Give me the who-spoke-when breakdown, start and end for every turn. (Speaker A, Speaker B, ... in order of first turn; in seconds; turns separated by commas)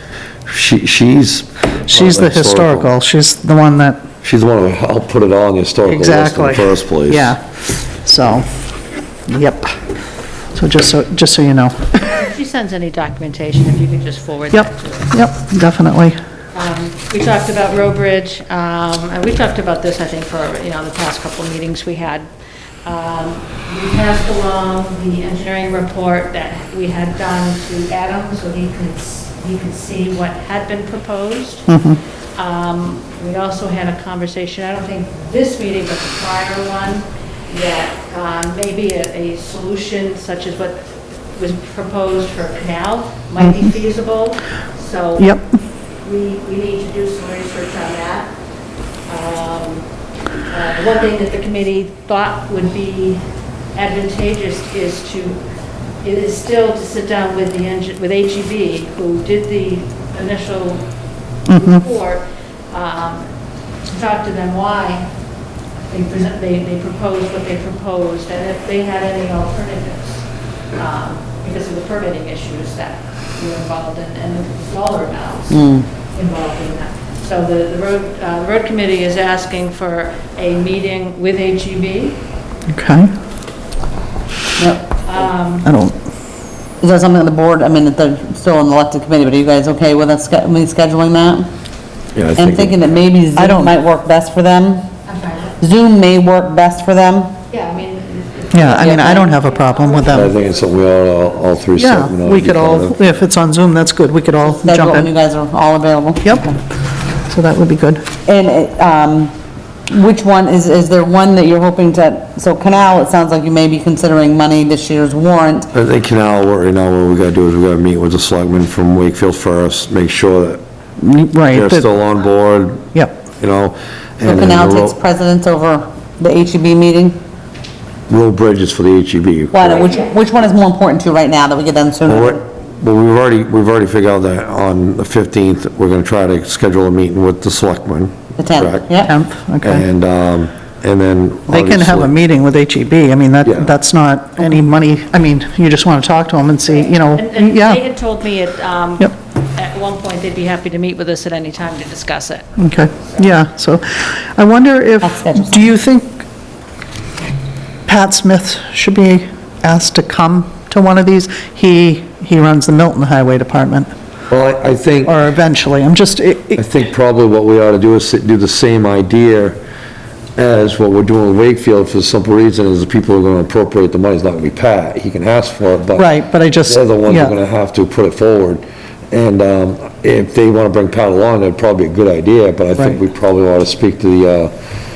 Speaker A: 0.5-2.9, Speaker B: 1.9-4.0, Speaker A: 4.2-7.3, Speaker B: 5.8-8.5, Speaker B: 9.3-9.8, Speaker B: 10.5-12.1, Speaker C: 12.1-15.1, Speaker B: 14.5-16.2, Speaker C: 16.5-22.3, Speaker C: 22.8-31.7, Speaker B: 31.7-32.0, Speaker C: 32.4-45.4, Speaker B: 45.2-45.6, Speaker C: 46.0-48.3, Speaker C: 49.1-49.9, Speaker C: 50.5-55.4, Speaker C: 56.0-60.9, Speaker C: 61.4-63.3, Speaker B: 61.5-61.8, Speaker C: 63.9-65.1, Speaker C: 65.8-82.2, Speaker D: 75.5-75.8, Speaker B: 82.7-83.1, Speaker D: 84.6-84.8, Speaker C: 85.0-85.7, Speaker B: 85.6-86.0, Speaker D: 86.8-91.5, Speaker A: 92.1-92.8, Speaker D: 92.3-94.9, Speaker B: 93.3-93.7, Speaker C: 95.0-95.6, Speaker D: 95.6-97.3, Speaker C: 97.5-100.7, Speaker B: 98.5-100.3, Speaker D: 98.7-99.2, Speaker A: 100.1-103.0, Speaker B: 101.8-105.1, Speaker D: 104.5-106.6, Speaker B: 106.2-106.5, Speaker B: 107.2-108.0, Speaker D: 108.2-109.3, Speaker D: 109.9-115.7, Speaker A: 115.7-120.6, Speaker B: 121.0-121.9, Speaker A: 121.5-125.0, Speaker B: 122.9-123.2, Speaker D: 124.2-127.2, Speaker A: 128.1-129.9, Speaker D: 129.5-132.4, Speaker C: 129.7-130.1, Speaker A: 132.1-138.9, Speaker D: 138.4-139.1, Speaker B: 139.1-139.8, Speaker A: 139.6-142.1, Speaker B: 141.5-147.8, Speaker A: 143.4-143.7, Speaker C: 146.7-153.4, Speaker B: 152.6-156.2, Speaker D: 155.0-155.7, Speaker B: 157.8-163.9, Speaker A: 164.3-165.1, Speaker B: 165.0-166.6, Speaker A: 166.6-169.6, Speaker A: 170.3-176.1, Speaker B: 175.9-177.3, Speaker A: 176.6-184.5